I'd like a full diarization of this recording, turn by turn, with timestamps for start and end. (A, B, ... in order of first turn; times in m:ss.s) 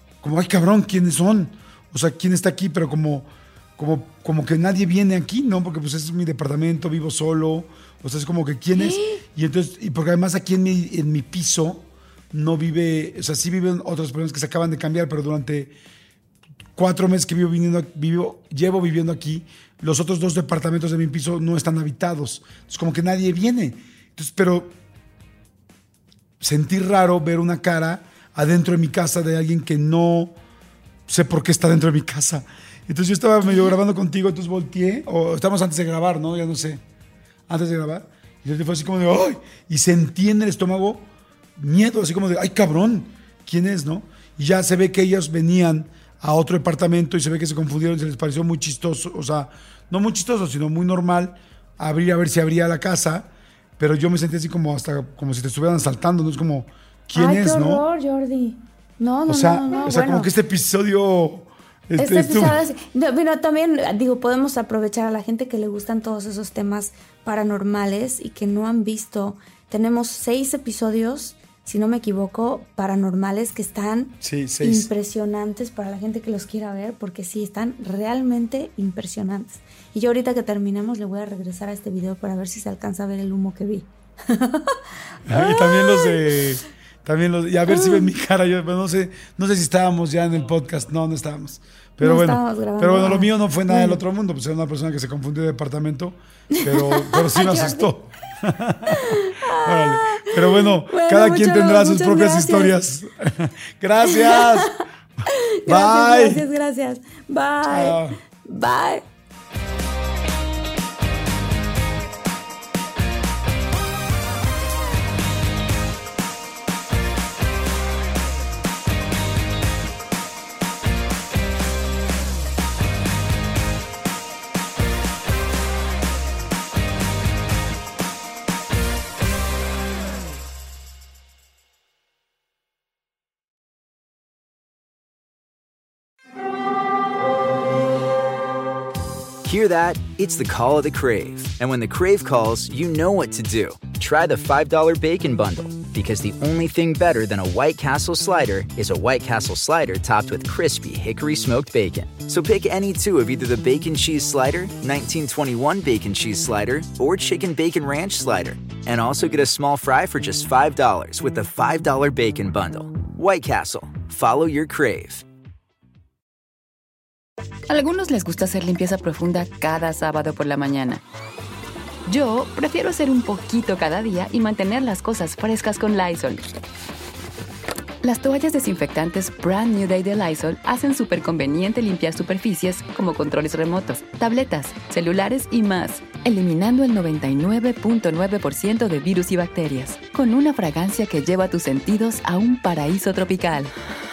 0:00.2-0:15.7 A
0:08.7-0:09.2 B
0:16.8-0:24.8 A
0:26.4-0:30.4 A
0:31.1-0:36.8 A
0:37.5-0:57.8 A
0:57.2-1:00.3 B
0:59.3-1:02.6 A
1:02.0-1:26.4 B
1:14.2-1:14.9 A
1:25.3-1:44.8 A
1:27.7-1:28.1 B
1:32.0-1:34.0 B
1:36.6-1:37.9 B
1:38.9-1:42.7 B
1:44.1-1:49.0 B
1:45.7-1:46.5 A
1:47.7-1:48.2 A
2:19.4-2:45.2 C
2:47.7-2:51.0 D
2:52.1-2:56.5 D
2:58.0-3:13.7 D